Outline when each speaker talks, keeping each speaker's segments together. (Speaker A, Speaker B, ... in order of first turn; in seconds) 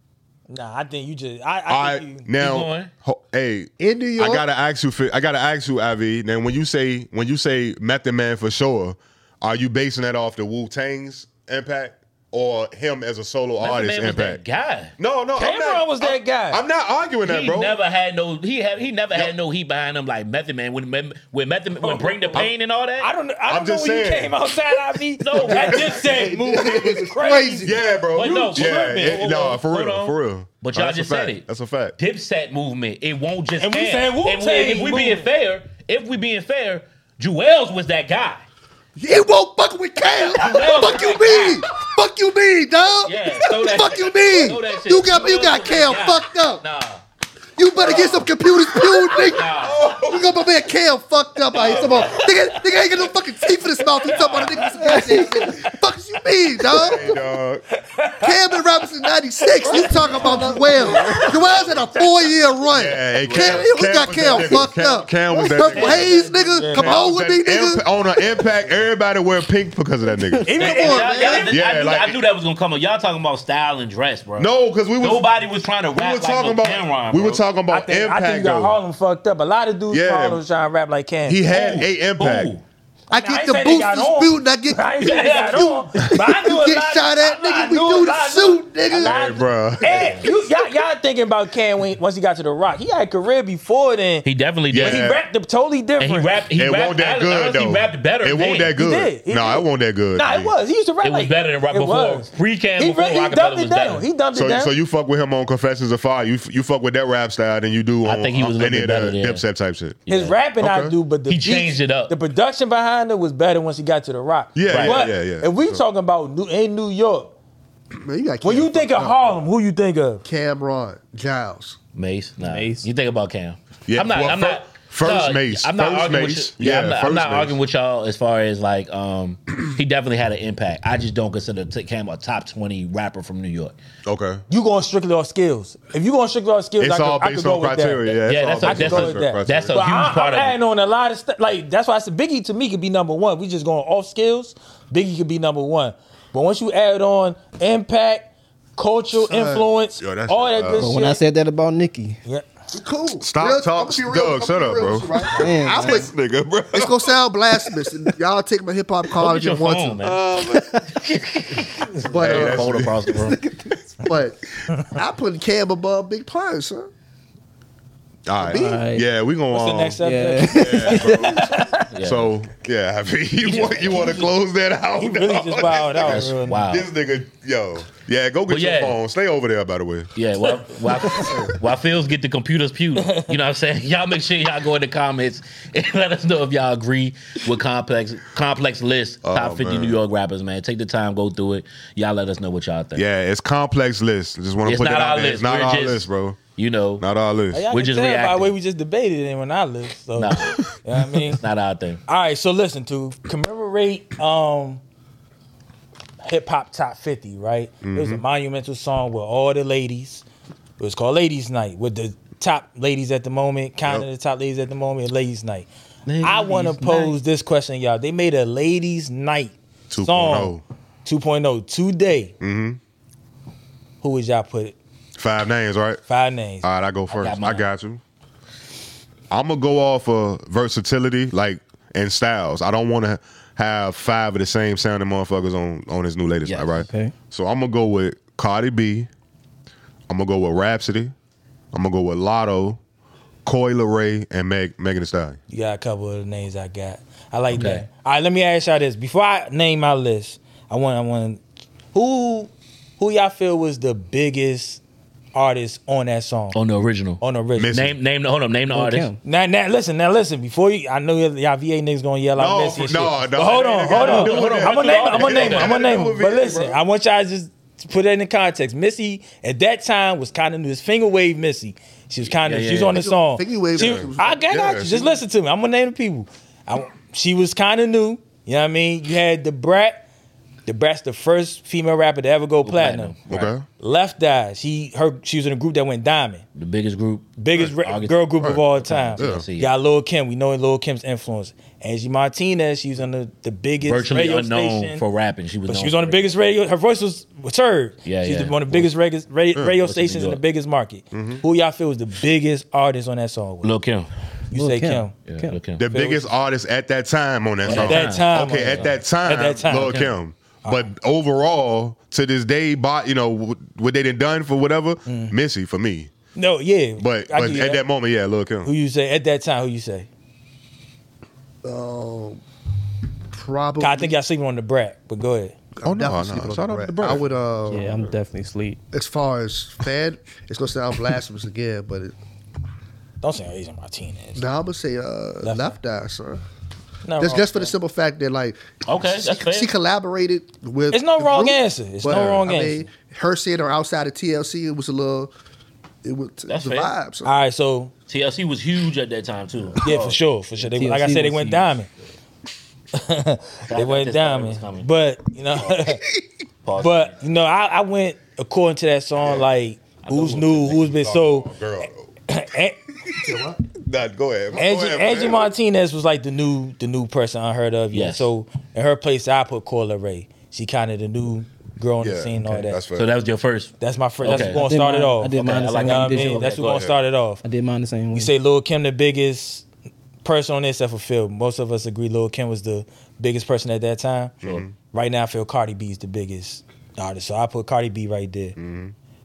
Speaker A: 0.5-2.3, 15.3-16.6, 21.8-22.5, 23.0-29.5, 33.6-35.3, 54.8-55.8, 57.7-58.8, 59.5-62.3, 66.4-67.1, 70.4-71.5, 77.7-81.4, 83.1-94.2, 94.8-96.5, 98.7-104.7, 110.1-117.3, 118.4-120.2, 134.5-151.2, 169.5-171.9, 173.5-174.2, 175.0-176.7, 181.1-181.4, 183.0-183.3, 197.5-201.4, 202.1-204.8, 206.2-210.2, 210.8-215.7, 216.2-222.3, 224.0-224.7, 226.1-226.6, 245.5-251.4, 251.9-254.8, 255.3-256.6, 257.2-257.7, 259.2-280.0, 280.6-283.2, 283.7-286.4, 287.4-295.0, 295.7-303.7, 304.5-305.2, 305.9-306.3, 307.6-310.1, 310.6-310.9, 315.1-315.3, 316.3-317.8, 318.6-320.1, 323.8-325.5, 333.2-334.4, 335.4-335.7, 337.0-337.7, 340.9-342.9, 347.2-347.9, 349.8-351.9, 352.9-356.0, 356.8-362.8, 364.5-372.8, 373.8-377.4, 378.1-379.7, 380.2-388.6
Speaker B: 1.7-14.4, 15.0-17.8, 23.5-24.5, 27.6-31.9, 49.6-50.5, 56.7-57.6, 60.7-61.4, 62.7-66.1, 66.7-70.5, 71.2-72.2, 74.4-75.3, 75.9-78.8, 79.9-80.4, 81.2-82.5, 89.0-90.3, 94.7-95.2, 96.5-100.5, 104.3-110.0, 110.6-110.9, 114.5-115.8, 123.9-127.6, 134.0-134.4, 136.8-139.8, 150.0-150.9, 153.2-157.2, 160.0-160.7, 162.1-163.3, 168.2-180.1, 189.2-190.0, 192.9-196.4, 197.0-197.7, 207.8-208.2, 219.9-220.6, 222.4-222.8, 225.2-226.0, 226.6-228.0, 229.3-239.1, 240.1-241.1, 241.7-242.8, 243.4-245.4, 257.6-257.9, 262.3-266.8, 273.8-275.1, 283.3-283.7, 289.2-289.4, 301.1-301.4, 305.8-316.1, 317.0-318.7, 325.8-328.1, 360.8-362.1, 363.8-365.5, 372.0-373.1, 376.7-376.9, 384.4-384.7, 388.6-388.9
Speaker C: 2.4-2.9, 13.6-14.9, 17.2-23.1, 25.2-26.1, 28.1-31.4, 32.0-38.4, 40.2-41.6, 43.0-47.0, 47.8-48.2, 49.2-49.8, 51.5-52.8, 54.0-55.0, 59.8-60.5, 63.2-63.7, 65.7-66.8, 70.6-77.4, 81.5-82.6, 85.0-85.8, 89.8-90.4, 94.2-95.1, 96.0-98.7, 101.0-104.0, 108.0-109.4, 110.1-110.4, 111.3-112.1, 114.7-115.1, 121.9-133.7, 138.3-140.6, 159.2-160.2, 160.9-163.4, 171.9-172.3, 173.4-174.2, 176.0-176.9, 178.5-179.0, 180.1-193.0, 194.6-197.0, 197.7-198.6, 200.2-200.6, 201.2-202.0, 216.1-217.1, 227.1-227.7, 236.4-236.8, 247.5-247.8, 256.5-259.1, 263.9-265.9, 272.2-273.1, 282.6-283.5, 286.6-289.7, 293.8-296.3, 298.0-298.9, 299.8-300.4, 303.6-304.1, 305.3-305.8, 307.6-308.9, 309.8-310.1, 338.9-339.7, 346.5-346.9, 348.1-350.2, 353.7-354.9, 356.6-357.2, 360.0-360.9, 367.9-368.3, 372.9-374.6, 375.3-376.9
Speaker D: 3.8-4.5, 25.7-27.8, 39.0-46.6, 47.6-57.2, 58.2-67.8, 70.5-71.5, 83.1-89.2, 118.0-119.4, 120.2-121.8, 149.1-149.7, 152.7-156.1, 156.7-160.0, 162.0-162.9, 164.0-166.9, 168.4-168.8, 272.9-274.5, 321.6-322.4, 323.3-324.2, 325.8-328.0, 328.9-332.1, 334.4-336.4, 337.2-345.3, 346.0-347.3, 363.1-363.6
Speaker E: 122.4-122.8, 150.8-152.2, 155.4-156.1, 160.5-160.8, 168.5-169.1, 170.0-171.3, 236.8-237.1, 258.7-259.2, 304.5-305.6, 327.7-328.8, 350.6-351.7, 374.2-376.5, 377.4-378.3